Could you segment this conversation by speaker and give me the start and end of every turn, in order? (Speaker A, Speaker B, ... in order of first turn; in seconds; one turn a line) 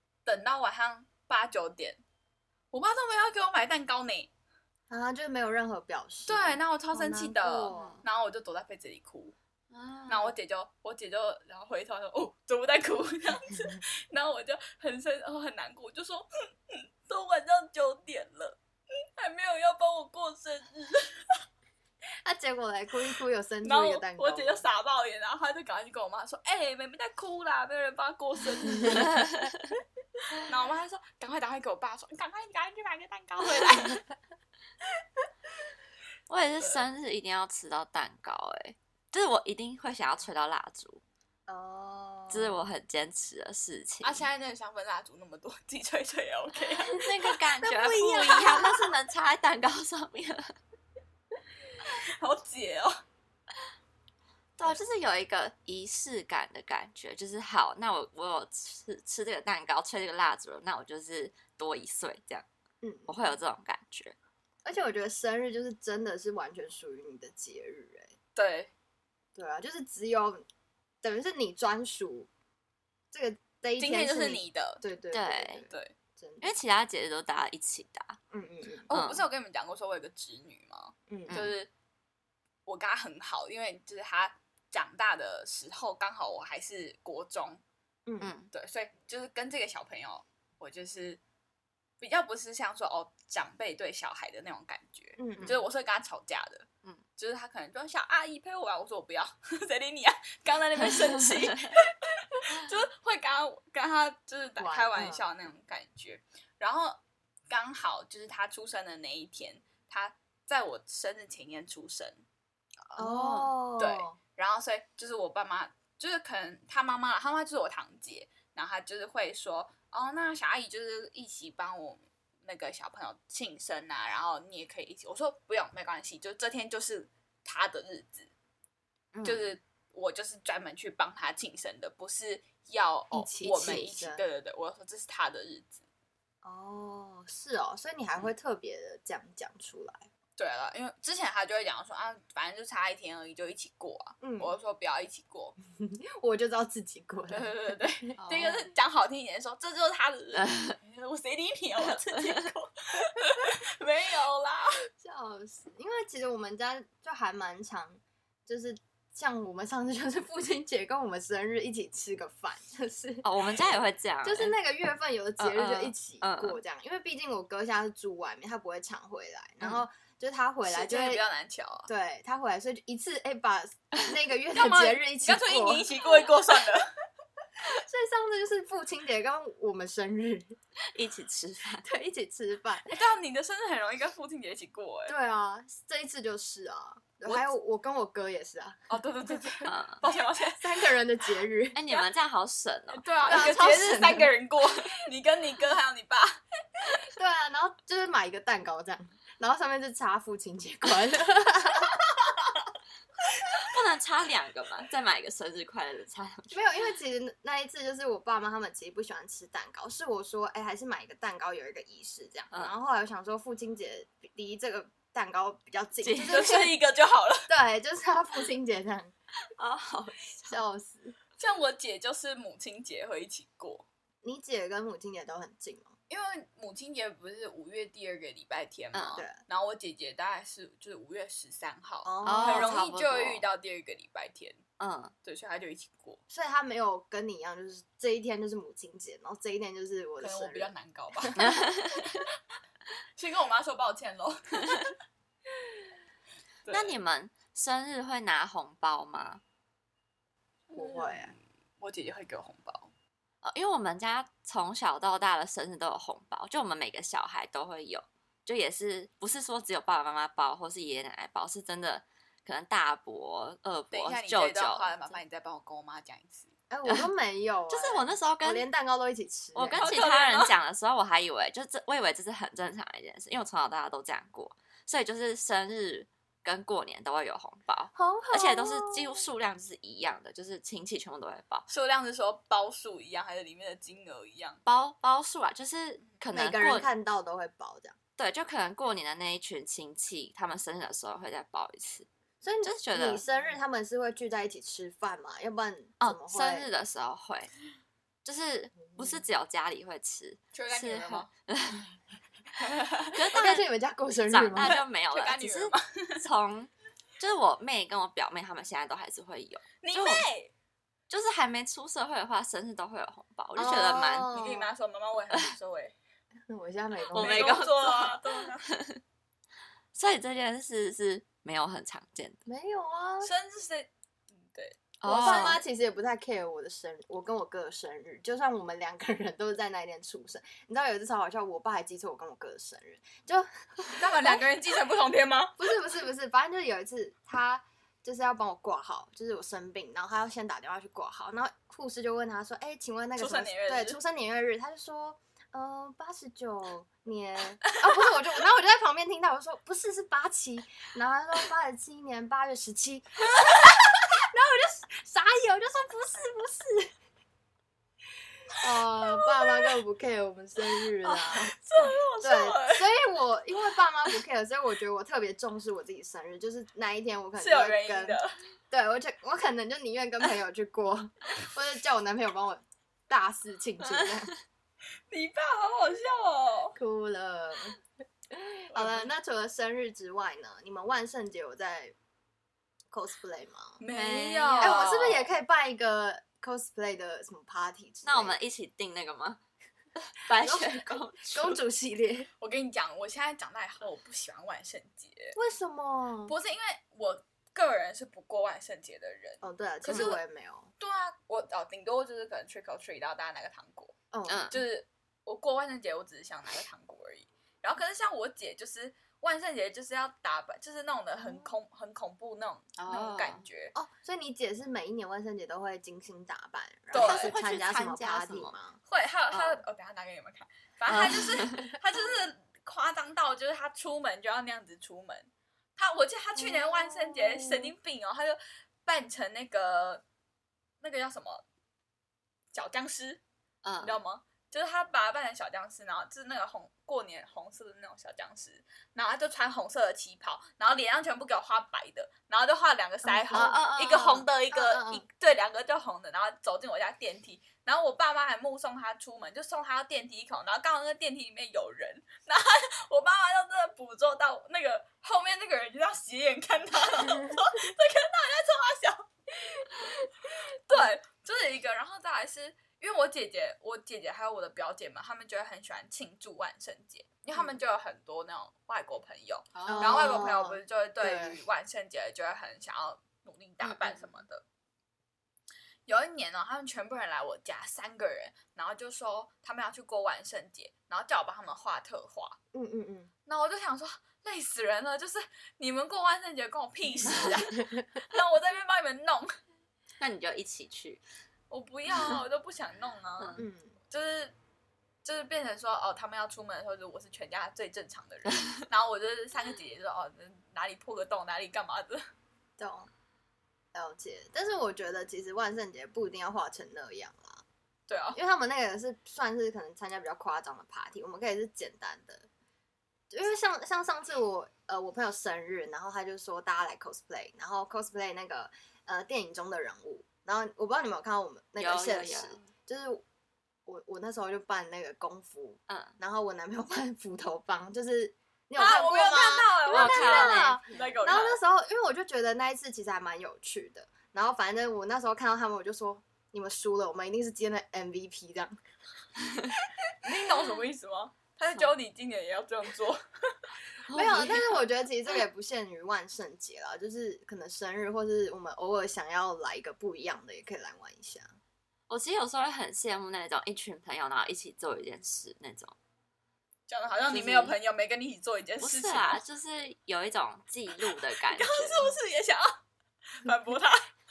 Speaker A: 0.2-2.0
Speaker A: 2.7-4.3
Speaker B: 4.9-8.0
Speaker A: 6.3-9.3
Speaker C: 7.7-8.0
Speaker C: 9.7-10.3
Speaker A: 10.1-18.6
Speaker A: 19.2-21.2
Speaker B: 22.2-24.6
Speaker A: 23.6-29.4
Speaker C: 28.9-29.7
Speaker A: 30.4-34.0
Speaker C: 36.3-41.0
Speaker B: 41.5-42.6
Speaker C: 42.3-44.2
Speaker A: 44.0-47.3
Speaker C: 46.9-50.5
Speaker B: 47.6-48.9
Speaker A: 52.2-53.0
Speaker C: 54.6-62.5
Speaker B: 62.8-63.1
Speaker C: 63.1-64.1
Speaker B: 64.6-68.1
Speaker A: 68.3-68.7
Speaker B: 69.3-70.4
Speaker B: 71.0-72.3
Speaker B: 73.1-76.5
Speaker A: 73.8-74.8
Speaker C: 75.1-75.6
Speaker C: 76.4-78.2
Speaker B: 78.3-78.9
Speaker A: 78.9-81.7
Speaker C: 78.9-79.2
Speaker B: 81.1-81.4
Speaker C: 81.3-81.6
Speaker A: 82.7-87.6
Speaker B: 88.1-88.3
Speaker C: 88.2-88.5
Speaker A: 88.5-91.2
Speaker A: 92.0-96.7
Speaker B: 95.2-95.6
Speaker A: 97.2-107.0
Speaker B: 104.6-105.2
Speaker A: 107.5-112.2
Speaker C: 112.9-113.4
Speaker B: 113.0-114.2
Speaker A: 113.8-128.3
Speaker C: 129.1-129.5
Speaker A: 129.2-135.8
Speaker B: 133.1-134.2
Speaker B: 136.4-140.1
Speaker A: 140.4-145.6
Speaker B: 144.2-144.6
Speaker B: 145.8-147.5
Speaker A: 147.3-154.9
Speaker B: 148.2-148.6
Speaker C: 148.3-148.6
Speaker C: 150.4-150.8
Speaker C: 152.2-152.4
Speaker B: 155.0-163.3
Speaker C: 163.2-164.5
Speaker B: 164.2-171.2
Speaker C: 165.4-166.6
Speaker A: 170.7-171.9
Speaker B: 171.9-176.0
Speaker A: 174.6-176.9
Speaker B: 177.6-180.6
Speaker C: 180.9-181.8
Speaker B: 181.8-182.9
Speaker A: 182.9-185.1
Speaker B: 185.1-188.8
Speaker A: 188.9-190.9
Speaker C: 189.7-190.0
Speaker B: 190.6-191.8
Speaker C: 191.8-193.0
Speaker A: 192.9-196.9
Speaker B: 193.3-194.3
Speaker B: 197.1-201.9
Speaker C: 203.6-206.6
Speaker B: 206.5-216.8
Speaker C: 216.0-216.6
Speaker A: 216.2-217.5
Speaker B: 217.5-219.1
Speaker C: 219.6-220.6
Speaker B: 220.3-221.2
Speaker A: 221.4-223.9
Speaker B: 224.2-225.9
Speaker A: 226.1-234.6
Speaker C: 228.9-229.2
Speaker B: 232.1-232.8
Speaker C: 232.2-233.4
Speaker C: 234.8-235.1
Speaker A: 235.2-236.2
Speaker B: 236.3-240.7
Speaker A: 240.2-241.6
Speaker C: 241.4-242.2
Speaker A: 243.2-244.9
Speaker A: 246.6-246.9
Speaker C: 246.7-249.4
Speaker A: 250.7-252.9
Speaker B: 250.8-251.3
Speaker C: 253.4-265.2
Speaker A: 263.9-266.5
Speaker B: 266.7-269.9
Speaker C: 267.7-268.6
Speaker C: 269.6-281.6
Speaker A: 269.7-270.5
Speaker B: 277.9-279.3
Speaker A: 281.7-284.6
Speaker C: 284.6-286.9
Speaker B: 286.3-287.9
Speaker C: 288.2-292.1
Speaker B: 292.4-296.7
Speaker C: 292.6-293.2
Speaker C: 296.0-297.5
Speaker C: 298.2-301.9
Speaker B: 298.9-299.2
Speaker A: 300.5-301.3
Speaker A: 302.6-303.1
Speaker C: 303.1-303.7
Speaker B: 303.3-304.7
Speaker C: 304.3-310.3
Speaker A: 304.6-306.2
Speaker A: 309.8-310.5
Speaker C: 311.1-314.3
Speaker B: 313.6-314.7
Speaker A: 314.2-315.9
Speaker B: 316.5-317.7
Speaker A: 317.1-318.6
Speaker C: 317.1-319.0
Speaker C: 319.9-322.4
Speaker B: 322.4-323.3
Speaker A: 323.2-325.5
Speaker C: 325.0-325.6
Speaker B: 325.1-334.4
Speaker A: 333.9-335.6
Speaker B: 335.6-356.9
Speaker A: 343.2-344.0
Speaker B: 358.5-368.2
Speaker A: 359.1-359.7
Speaker C: 361.1-361.5
Speaker A: 361.5-362.9
Speaker A: 367.4-368.4
Speaker B: 368.7-374.3
Speaker A: 375.1-376.8
Speaker B: 376.8-377.8
Speaker B: 378.3-381.9
Speaker A: 378.7-379.1
Speaker B: 382.9-383.8
Speaker A: 383.8-385.3
Speaker C: 383.9-385.0
Speaker B: 384.6-388.4
Speaker C: 388.0-389.4
Speaker C: 390.1-391.6
Speaker B: 390.4-392.3
Speaker A: 392.4-395.4
Speaker B: 395.4-396.4
Speaker A: 396.3-400.2
Speaker B: 399.4-400.7
Speaker C: 399.9-400.1
Speaker A: 400.8-403.9
Speaker B: 404.1-404.5
Speaker C: 404.3-404.6
Speaker A: 404.5-413.7
Speaker B: 411.2-411.5
Speaker C: 412.8-413.4
Speaker B: 413.7-418.8
Speaker A: 416.9-417.4
Speaker C: 416.9-418.6
Speaker A: 418.9-430.0
Speaker C: 419.3-419.6
Speaker C: 420.9-421.7
Speaker B: 426.4-427.7
Speaker A: 430.8-431.4
Speaker A: 432.5-433.2
Speaker C: 433.6-434.0
Speaker A: 433.8-474.4
Speaker B: 443.0-443.6
Speaker C: 443.3-444.3
Speaker B: 444.5-445.1
Speaker B: 469.6-471.4
Speaker C: 473.6-473.9
Speaker A: 475.9-482.4
Speaker B: 482.5-483.1
Speaker A: 483.3-489.4
Speaker C: 490.0-491.0
Speaker A: 491.5-493.4
Speaker B: 493.4-493.8
Speaker A: 493.9-494.3
Speaker A: 495.0-502.0
Speaker B: 502.6-502.9
Speaker B: 503.7-507.4
Speaker A: 507.9-508.2
Speaker B: 508.1-512.3
Speaker B: 513.1-523.0
Speaker C: 521.6-522.5
Speaker B: 523.6-538.6
Speaker C: 525.7-526.0
Speaker A: 528.6-531.4
Speaker C: 529.7-530.6
Speaker A: 540.0-543.5
Speaker C: 543.9-544.6
Speaker B: 543.9-551.4
Speaker C: 551.9-555.8
Speaker A: 556.7-559.2
Speaker C: 557.1-557.6
Speaker C: 558.6-561.9
Speaker A: 561.1-562.6
Speaker A: 563.2-563.9